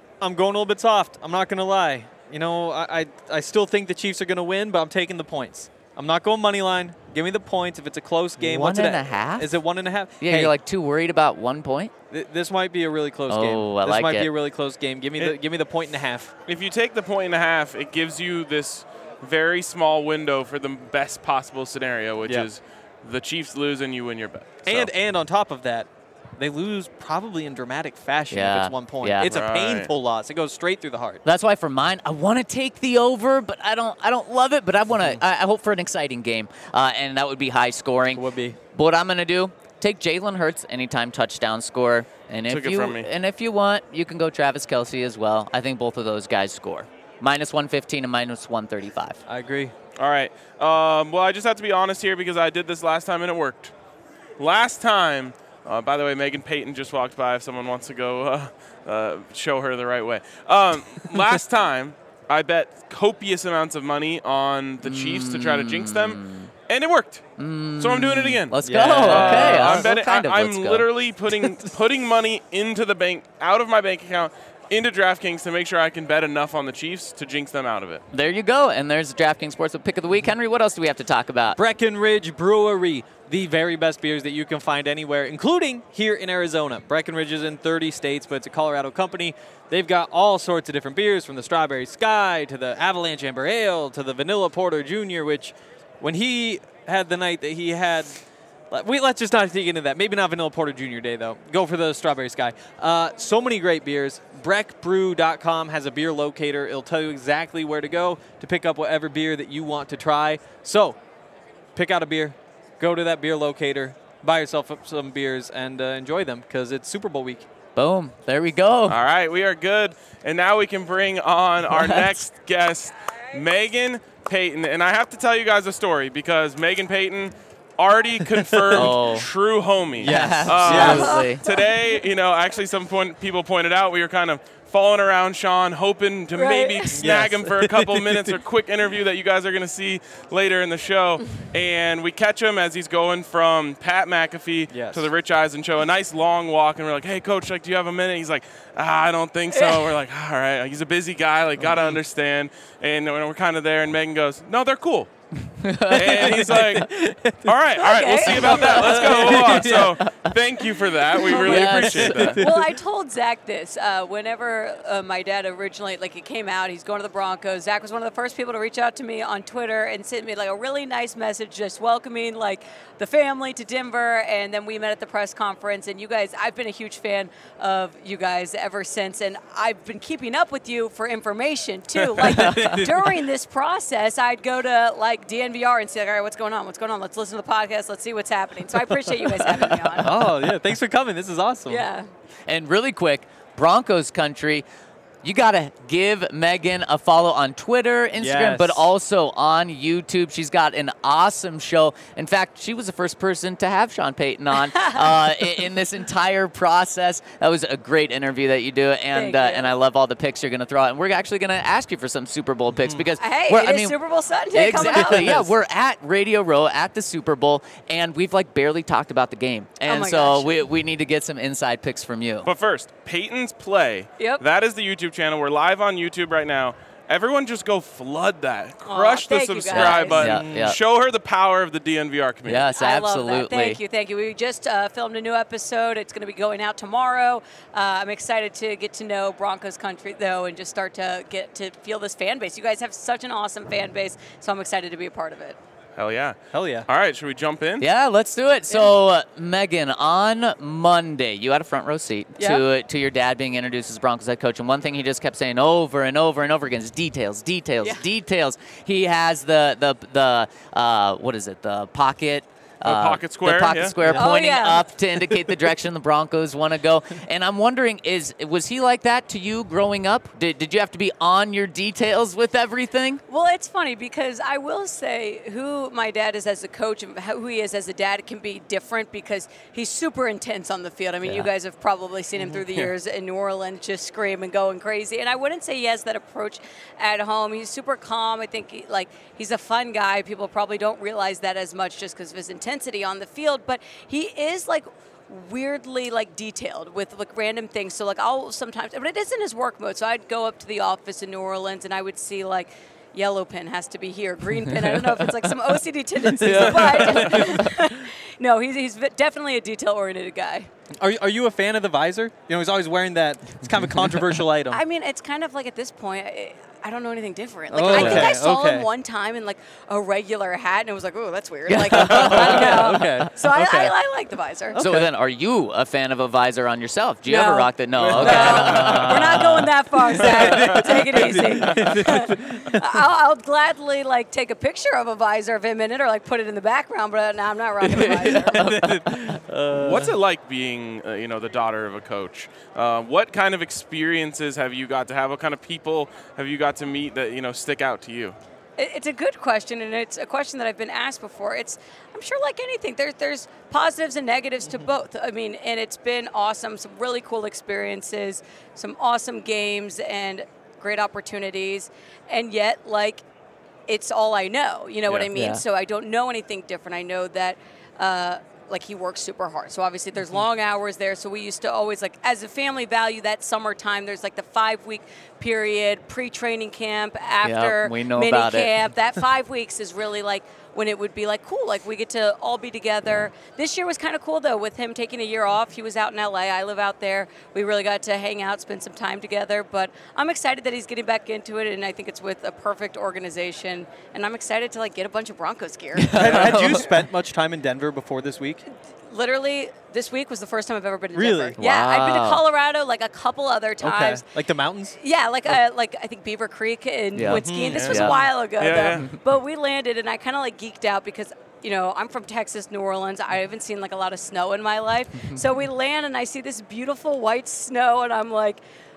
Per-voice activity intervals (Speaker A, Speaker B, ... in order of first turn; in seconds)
Speaker A: 0.2-10.5, 12.1-16.3, 24.6-31.2, 35.0-35.2, 38.1-38.6, 49.3-49.7, 68.6-69.9, 81.6-98.2, 98.7-111.0, 111.8-117.5, 128.4-128.9, 130.0-131.1, 136.9-138.3, 144.7-145.1, 156.0-157.5, 158.5-160.0, 161.6-162.7, 182.2-183.1, 190.0-191.8, 198.2-198.8, 212.8-213.0, 214.9-215.4, 230.3-230.7, 246.5-246.9, 264.0-264.3, 306.3-307.7, 311.0-314.8, 317.7-318.9, 321.7-323.9, 324.7-325.1, 327.9-332.8, 338.2-340.1, 396.1-398.6, 401.1-401.6, 403.8-404.9, 407.2-407.8
Speaker B: 8.4-9.5, 10.2-11.9, 13.3-14.3, 28.3-29.3, 31.2-49.2, 64.8-66.5, 67.4-70.9, 78.1-81.6, 117.8-119.0, 128.7-129.3, 130.0-131.4, 155.6-156.3, 159.3-160.3, 161.4-162.3, 192.5-194.6, 195.2-214.0, 214.5-222.5, 229.7-230.8, 232.5-233.8, 247.8-273.2, 281.2-281.5, 306.4-307.7, 317.9-318.3, 324.8-329.7, 337.9-339.4, 365.3-365.6, 377.4-378.8, 396.0-397.0, 401.6-402.4, 407.1-408.2, 415.2-415.4
Speaker C: 16.5-24.9, 29.2-29.9, 42.5-43.1, 50.0-53.7, 54.4-67.2, 67.8-78.0, 118.9-155.1, 155.9-156.9, 157.4-162.4, 222.4-232.7, 246.0-246.4, 246.9-247.8, 262.8-264.0, 282.6-282.9, 339.7-348.4, 407.6-409.1
Speaker D: 130.7-131.6, 136.3-137.1, 149.5-149.9, 157.7-159.2, 161.2-161.7, 162.4-190.2, 191.7-192.1, 204.6-205.5, 209.1-209.7, 213.2-215.5, 219.8-220.6, 228.8-230.3, 232.7-245.6, 252.4-252.6, 264.1-264.9, 273.3-310.7, 314.7-324.8, 327.2-338.7, 348.8-363.2, 363.9-396.6, 399.1-404.2, 405.0-418.6